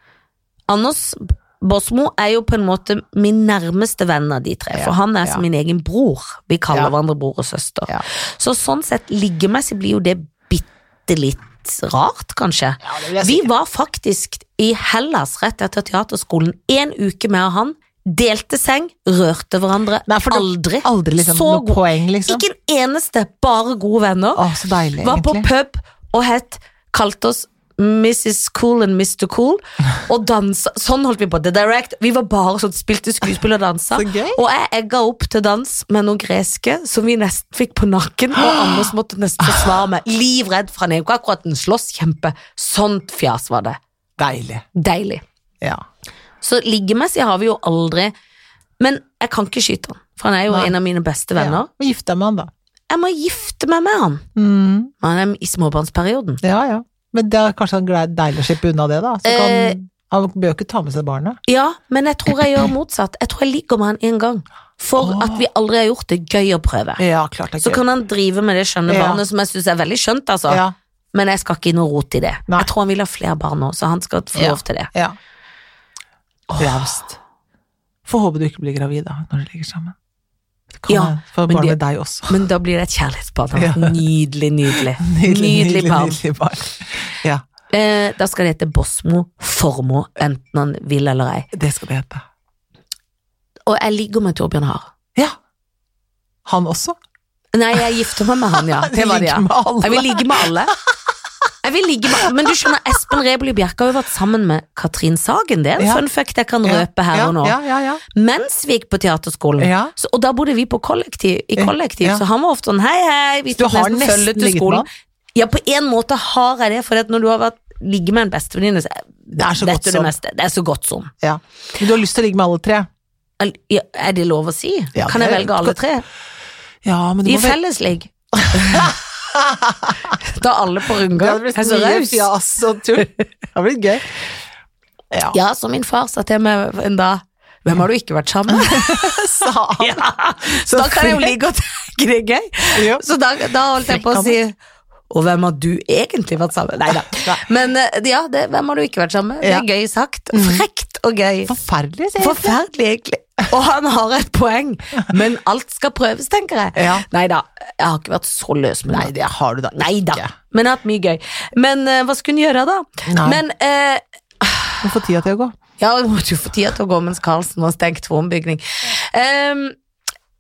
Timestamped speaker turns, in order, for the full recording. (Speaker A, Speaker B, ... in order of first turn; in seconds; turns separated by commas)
Speaker A: 0.7-24.4, Speaker B: 4.7-5.4, Speaker B: 12.8-13.5, Speaker B: 20.1-22.4, Speaker B: 24.4-25.5, Speaker A: 25.0-43.8, Speaker B: 33.9-34.4, Speaker B: 38.4-38.9, Speaker B: 39.4-39.7, Speaker B: 44.2-44.7, Speaker A: 44.8-45.2, Speaker A: 46.4-48.1, Speaker A: 48.8-51.7, Speaker B: 51.4-52.5, Speaker A: 52.9-54.2, Speaker B: 54.4-54.9, Speaker A: 55.0-56.4, Speaker B: 56.4-61.4, Speaker A: 59.2-59.8, Speaker A: 61.5-67.0, Speaker B: 65.0-65.4, Speaker B: 67.0-67.8, Speaker A: 67.6-74.9, Speaker B: 68.9-69.2, Speaker B: 70.5-70.7, Speaker B: 74.3-75.2, Speaker A: 76.5-76.9, Speaker B: 76.6-77.2, Speaker B: 78.1-80.0, Speaker B: 80.8-82.4, Speaker A: 80.9-81.8, Speaker A: 82.3-86.2, Speaker B: 83.6-84.0, Speaker B: 84.8-87.4, Speaker A: 87.7-91.5, Speaker B: 91.5-92.2, Speaker A: 93.7-94.9, Speaker B: 96.5-97.0, Speaker A: 97.5-100.7, Speaker B: 98.5-100.7, Speaker A: 101.6-107.6, Speaker B: 102.2-102.7, Speaker B: 105.8-106.0, Speaker B: 106.6-108.0, Speaker A: 108.1-121.1, Speaker B: 109.6-109.9, Speaker B: 111.6-112.2, Speaker B: 113.6-114.9, Speaker B: 119.4-120.1, Speaker B: 121.2-122.9, Speaker A: 123.4-126.0, Speaker B: 125.0-125.8, Speaker B: 126.8-127.6, Speaker A: 127.2-128.9, Speaker B: 128.4-130.1, Speaker A: 130.2-132.3, Speaker B: 131.1-134.1, Speaker B: 135.1-135.4, Speaker A: 135.3-144.6, Speaker B: 138.5-141.3, Speaker B: 142.8-143.0, Speaker B: 143.8-144.4, Speaker A: 145.1-151.5, Speaker B: 147.1-147.4, Speaker B: 149.4-149.7, Speaker B: 150.3-150.6, Speaker B: 151.5-152.6, Speaker A: 152.2-159.1, Speaker B: 156.8-157.1, Speaker B: 158.9-160.3, Speaker A: 159.7-164.8, Speaker B: 163.1-163.4, Speaker B: 164.8-165.5, Speaker A: 165.8-169.8